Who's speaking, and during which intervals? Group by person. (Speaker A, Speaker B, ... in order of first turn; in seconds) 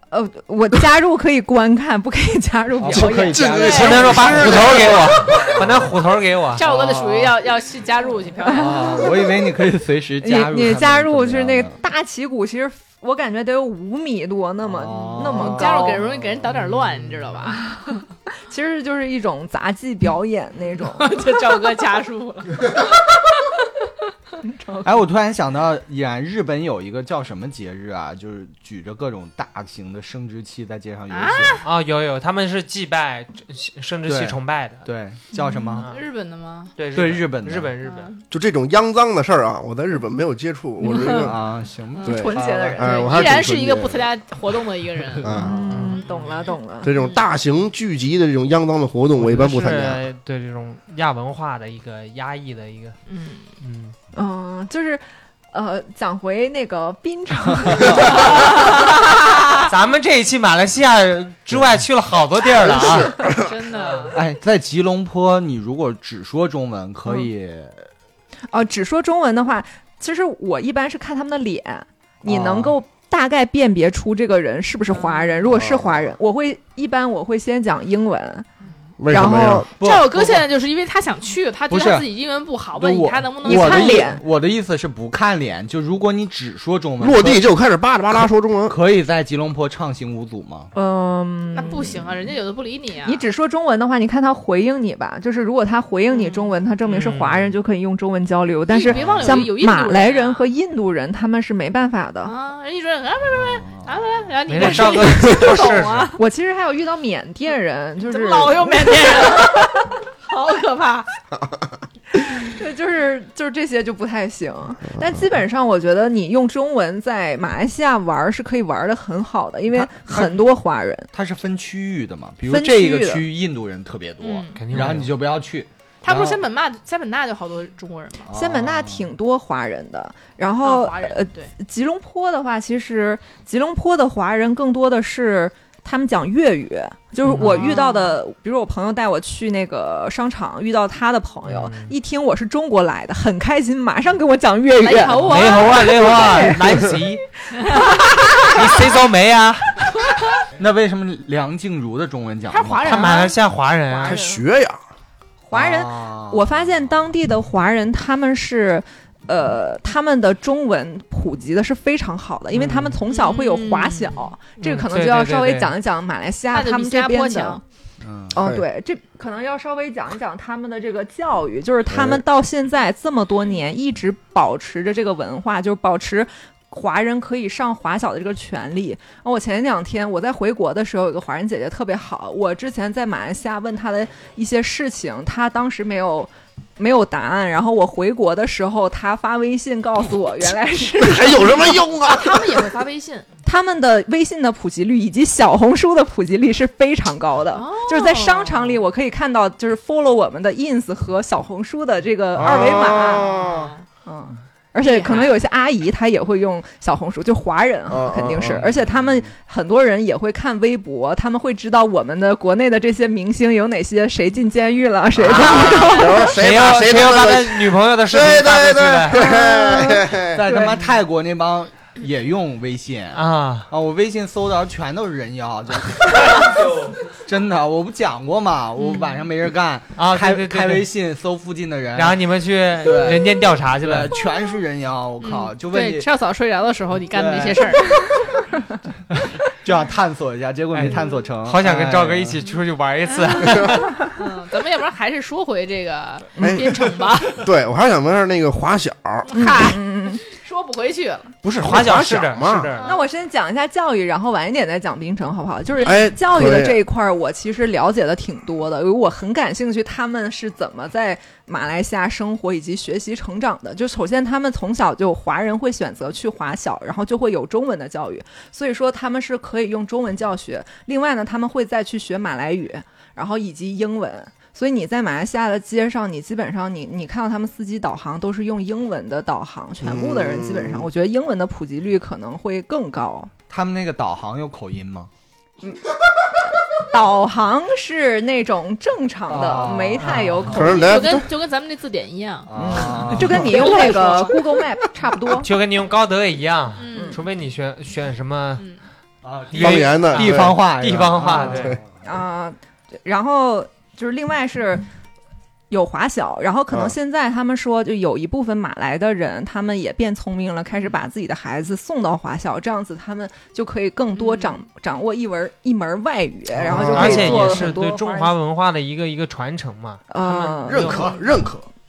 Speaker A: 0.1-5.0, 8.7-9.3, 10.2-16.0, 17.7-21.2, 24.4-25.1, 42.0-43.3, 45.3-47.0, 54.1-59.1, 68.5-78.5, 79.1-79.7, 83.4-84.2, 90.7-92.0, 93.0-102.3, 105.3-105.7, 106.2-109.9, 112.3-121.1, 122.5-123.3, 128.3-146.8, 147.8-148.8, 155.4-167.6, 168.3-191.9, 193.4-203.3, 204.1-216.3, 219.1-220.8, 246.4-246.6, 249.3-250.2, 252.8-283.3, 285.6-291.2, 292.6-295.5, 296.9-297.2, 302.0-304.9, 305.7-318.4, 320.1-321.2
Speaker B: 2.8-5.8, 6.6-7.3, 8.5-11.8, 14.7-17.3, 24.8-31.6, 34.1-35.9, 36.9-37.7, 41.0-42.8, 45.0-46.0, 57.5-58.1, 64.1-67.9, 72.3-72.8, 79.8-80.5, 81.7-82.1, 82.8-87.6, 88.7-90.7, 98.9-99.5, 103.4-103.9, 119.9-120.4, 121.1-126.4, 128.3-129.0, 150.6-153.1, 155.5-156.6, 168.0-168.4, 208.7-209.3, 220.3-232.2, 232.8-236.1, 237.1-238.0, 239.1-242.4, 283.5-285.1, 289.3-290.2, 292.5-293.5, 299.2-301.9
Speaker C: 2.9-5.7, 38.3-41.5, 42.1-44.1, 45.2-45.6, 46.8-50.0, 62.7-63.4, 75.5-76.0, 79.0-79.7, 87.0-88.8, 154.0-154.8, 171.9-172.2, 191.0-192.6, 202.4-203.7, 207.9-208.6, 215.4-220.4, 246.4-249.3, 251.4-252.7, 255.8-256.8, 279.8-280.9, 290.5-291.3, 293.4-293.8, 299.6-300.6, 301.5-301.8, 316.6-317.7, 320.7-321.6
Speaker D: 3.6-4.2, 6.5-9.0, 15.4-17.7, 20.9-22.9, 31.1-31.6, 35.4-36.8, 37.8-38.2, 40.8-41.3, 42.0-47.2, 53.1-53.5, 58.2-58.7, 63.2-64.2, 74.9-75.4, 79.8-84.1, 91.5-93.2, 96.1-96.5, 98.7-100.5, 102.2-106.2, 108.1-111.1, 124.2-124.9, 126.0-128.2, 130.6-131.5, 137.3-138.2, 144.8-146.5, 147.6-147.8, 152.5-153.4, 153.9-154.3, 163.1-164.3, 166.5-167.6, 191.5-193.3, 197.5-198.8, 202.9-203.8, 204.8-205.4, 215.3-216.2, 228.8-229.2, 235.2-238.2, 240.8-241.2, 243.3-247.5, 249.2-251.3, 252.8-253.0, 290.7-294.6, 296.8-297.2, 314.1-314.6
Speaker E: 3.7-6.6, 31.6-34.9, 35.8-36.0, 36.8-38.1, 49.1-53.0, 53.6-54.0, 59.6-63.3, 96.9-97.5, 104.5-106.1, 124.5-125.1, 141.4-141.9, 145.2-147.3, 148.4-150.1, 152.8-154.2, 162.6-163.0, 164.6-165.7, 216.2-219.3, 223.2-223.7, 230.0-230.9, 231.9-234.2, 241.4-244.0, 251.4-252.9, 290.0-290.7, 295.3-298.7, 299.5-301.8, 316.6-321.4